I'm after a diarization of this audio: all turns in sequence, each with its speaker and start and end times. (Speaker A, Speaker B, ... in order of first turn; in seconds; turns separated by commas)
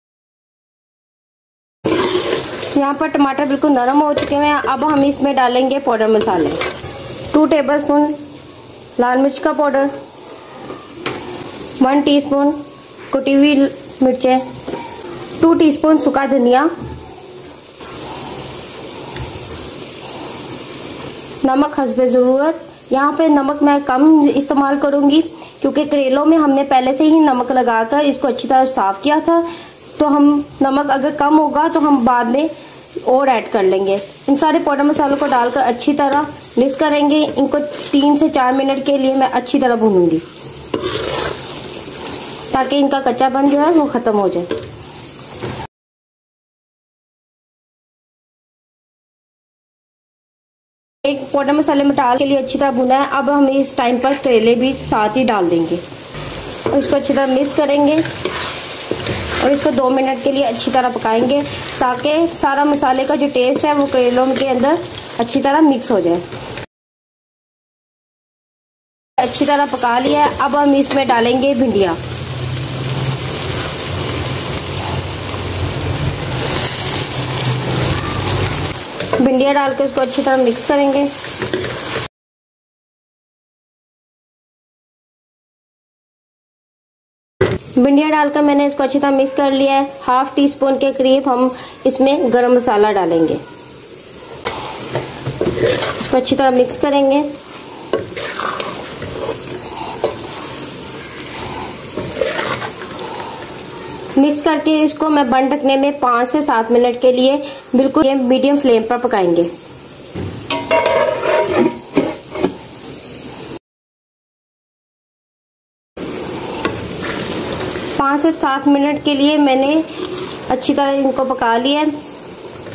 Speaker A: 2.7-6.6, Speaker A: 7.3-8.2, Speaker A: 9.0-9.9, Speaker A: 11.8-14.4, Speaker A: 15.4-16.7, Speaker A: 21.4-40.2, Speaker A: 42.5-44.5, Speaker A: 51.0-55.8, Speaker A: 56.7-58.0, Speaker A: 59.4-66.2, Speaker A: 69.2-72.0, Speaker A: 79.2-81.1, Speaker A: 87.8-93.4, Speaker A: 96.0-97.3, Speaker A: 104.1-109.5, Speaker A: 118.0-119.9, Speaker A: 120.5-121.9